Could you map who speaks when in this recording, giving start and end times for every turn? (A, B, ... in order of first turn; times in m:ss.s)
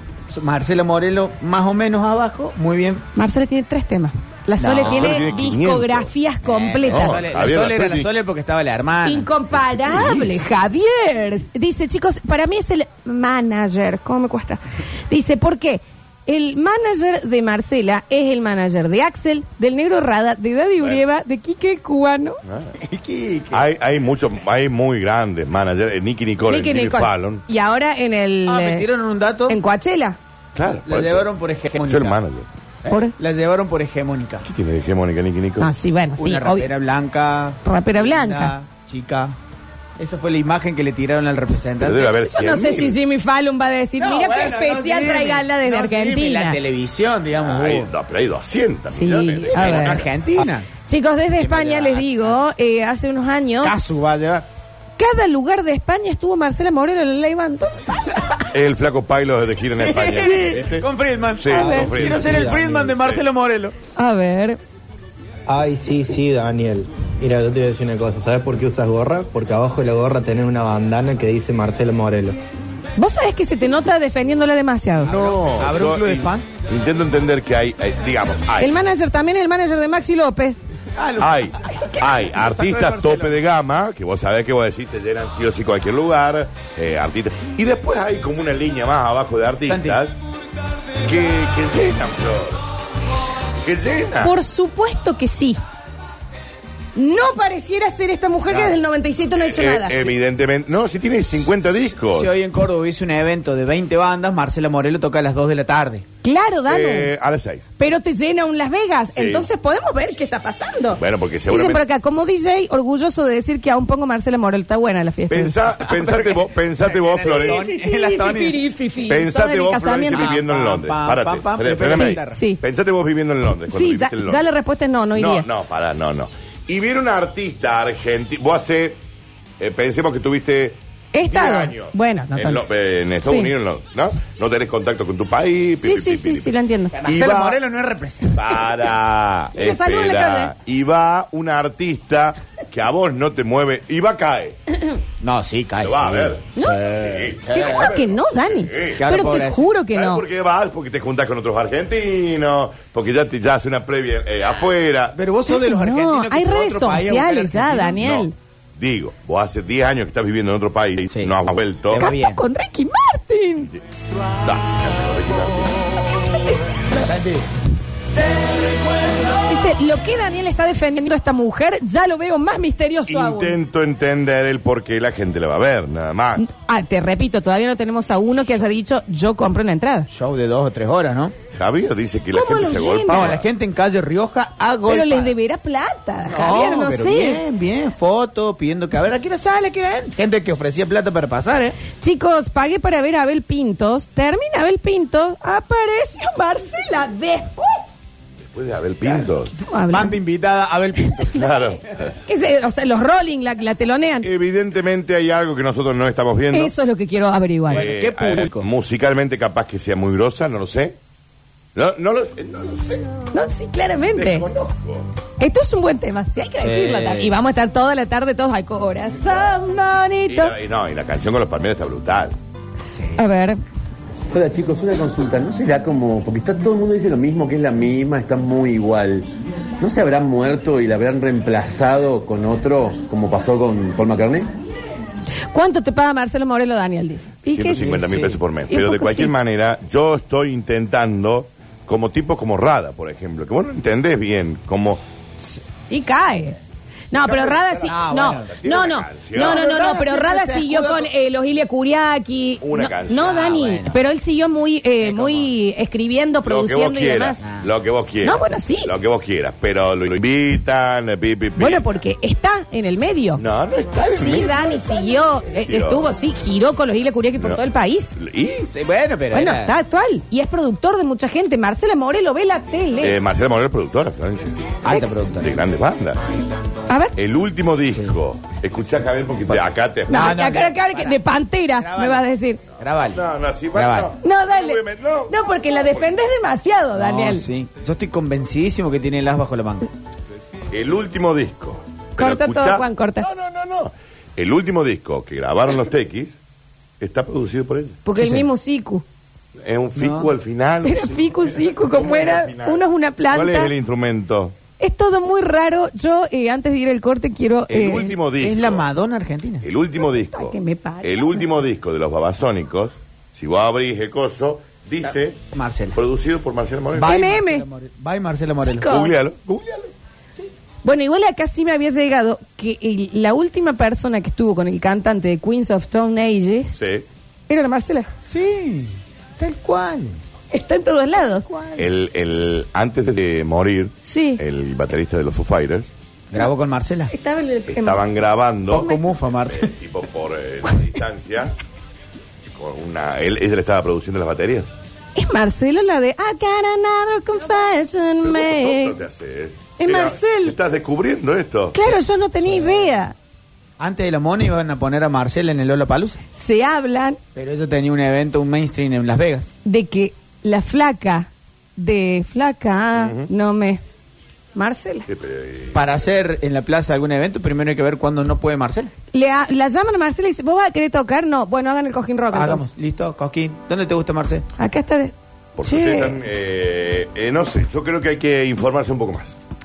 0:00.3-0:03.0 A
0:03.1-0:07.2 B
0:04.6-0:05.2 A
0:04.7-0:06.1 C
0:06.4-0:09.3 A
0:06.9-0:08.1 C
0:09.0-0:22.4 B
0:22.4-0:22.7 C
0:22.8-0:23.6 A
0:23.5-0:27.4 C
0:26.4-0:28.8 B
0:28.5-0:29.6 A
0:29.5-0:30.2 B
0:30.6-0:31.3 C
0:30.7-0:32.2 A
0:31.8-0:32.5 C
0:32.8-0:34.4 A
0:32.9-0:33.1 B
0:34.4-0:35.7 C
0:35.6-0:36.7 B
0:36.2-0:39.3 A
0:37.6-0:38.5 B
0:40.0-0:42.2 A
0:41.8-0:43.0 C
0:42.2-0:46.6 B
0:44.0-0:47.9 A
0:47.4-0:50.1 C
0:48.9-0:50.0 B
0:49.6-0:50.7 A
0:50.8-0:53.8 B
0:51.4-0:52.4 A
0:53.6-0:54.4 A
0:55.0-0:58.2 B
0:58.5-1:00.8 C
0:59.8-1:03.7 A
1:01.4-1:03.3 C
1:01.5-1:02.0 B
1:04.0-1:04.6 B
1:05.5-1:12.4 D
1:13.0-1:15.1 B
1:15.0-1:16.5 A
1:15.1-1:18.7 C
1:18.6-1:20.6 B
1:21.0-1:23.4 A
1:21.2-1:30.1 C
1:29.6-1:30.0 A
1:31.0-1:32.6 C
1:33.6-1:34.3 C
1:34.2-1:35.6 B
1:36.9-1:40.1 B
1:38.5-1:38.8 A
1:39.4-1:42.3 C
1:41.8-1:46.0 A
1:46.2-1:47.1 B
1:46.6-1:47.7 C
1:47.8-1:56.0 B
1:49.2-1:49.5 C
1:51.0-1:51.8 C
1:55.3-1:57.7 C
1:56.8-1:58.6 A
1:57.5-2:00.3 B
1:59.1-2:04.4 C
2:00.1-2:02.4 A
2:01.9-2:02.6 B
2:03.7-2:05.5 B
2:05.1-2:09.0 C
2:09.6-2:16.5 C
2:11.1-2:12.6 B
2:13.2-2:13.5 B
2:15.8-2:16.9 B
2:16.9-2:18.6 A
2:17.0-2:17.6 C
2:18.3-2:24.6 C
2:19.5-2:20.5 B
2:25.2-2:27.8 A
2:25.8-2:29.1 C
2:26.6-2:26.9 B
2:27.4-2:30.2 B
2:29.0-2:29.7 A
2:29.8-2:35.2 C
2:35.1-2:38.0 A
2:35.5-2:38.3 B
2:38.0-2:42.1 C
2:41.0-2:41.3 A
2:41.9-2:42.4 A
2:41.9-2:43.7 B
2:44.4-2:45.7 C
2:46.4-2:47.1 B
2:47.0-2:47.4 A
2:49.4-2:53.6 B
2:53.1-2:56.4 C
2:56.4-3:00.1 B
3:00.1-3:01.3 A
3:01.5-3:03.4 C
3:02.3-3:03.4 B
3:03.1-3:05.3 A
3:04.9-3:07.4 B
3:06.2-3:11.8 A
3:12.0-3:17.8 B
3:18.4-3:19.5 C
3:19.0-3:19.3 A
3:19.5-3:20.2 B
3:19.9-3:21.4 A
3:21.3-3:22.1 C
3:22.2-3:24.3 B
3:24.2-3:26.7 C
3:26.5-3:27.9 B
3:27.7-3:30.9 C
3:27.7-3:28.7 A
3:31.7-3:33.2 C
3:33.3-3:34.5 B
3:34.1-3:35.1 C
3:35.4-3:40.6 B
3:36.6-3:37.4 A
3:40.3-3:42.3 C
3:42.9-3:43.2 A
3:43.2-3:43.6 B
3:44.3-3:49.3 E
3:49.8-3:54.5 E
3:55.5-3:58.0 B
3:57.5-4:05.0 C
3:57.8-3:58.4 A
3:58.7-3:59.3 B
4:05.9-4:06.6 B
4:07.1-4:17.4 B
4:07.2-4:08.5 A
4:07.6-4:09.6 C
4:09.3-4:11.1 A
4:12.6-4:13.4 C
4:13.1-4:14.0 A
4:15.0-4:15.5 A
4:16.4-4:21.9 C
4:17.4-4:17.7 A
4:18.2-4:18.9 B
4:21.6-4:23.4 B
4:23.4-4:26.1 C
4:24.0-4:28.1 B
4:28.2-4:28.7 C
4:28.6-4:29.7 A
4:29.3-4:33.2 B
4:33.0-4:34.8 C
4:34.8-4:35.6 A
4:35.4-4:36.2 C
4:36.9-4:37.1 B
4:37.2-4:40.3 C
4:37.9-4:38.2 A
4:40.1-4:42.6 B
4:40.1-4:41.2 A
4:41.8-4:42.2 A
4:42.8-4:44.1 A
4:43.1-4:46.1 C
4:44.2-4:47.4 B
4:47.0-4:49.9 A
4:50.7-4:56.4 C
4:52.2-4:53.3 B
4:57.0-4:58.0 C
4:58.0-4:59.0 B
4:58.1-4:58.5 A
4:59.6-5:04.6 C
4:59.9-5:00.3 A
5:00.8-5:03.7 B
5:04.8-5:08.1 B
5:07.7-5:08.8 C
5:08.4-5:09.7 A
5:09.6-5:17.2 C
5:10.3-5:11.4 B
5:15.0-5:16.0 A
5:16.9-5:18.9 A
5:17.0-5:17.6 B
5:18.6-5:19.1 B
5:18.8-5:19.9 C
5:20.8-5:26.7 B
5:26.7-5:27.0 C
5:27.5-5:28.1 B
5:28.3-5:30.2 A
5:30.5-5:31.4 B
5:31.4-5:31.9 A
5:31.8-5:35.9 C
5:34.0-5:34.4 B
5:36.3-5:37.1 A
5:37.1-5:38.0 B
5:37.7-5:41.5 C
5:38.7-5:39.7 A
5:38.7-5:39.0 B
5:42.5-5:44.7 C
5:45.1-5:49.0 B
5:48.2-5:51.8 C
5:49.8-5:50.6 B
5:51.7-5:53.1 B
5:51.9-5:53.0 A
5:53.8-5:56.2 A
5:56.3-5:57.2 B
5:57.3-5:59.5 A
5:59.6-6:03.8 B
6:02.9-6:03.3 C
6:04.5-6:05.1 B
6:05.1-6:05.9 C
6:05.7-6:08.9 A
6:09.1-6:12.7 B
6:12.3-6:14.4 A
6:14.6-6:16.2 B
6:15.6-6:19.3 C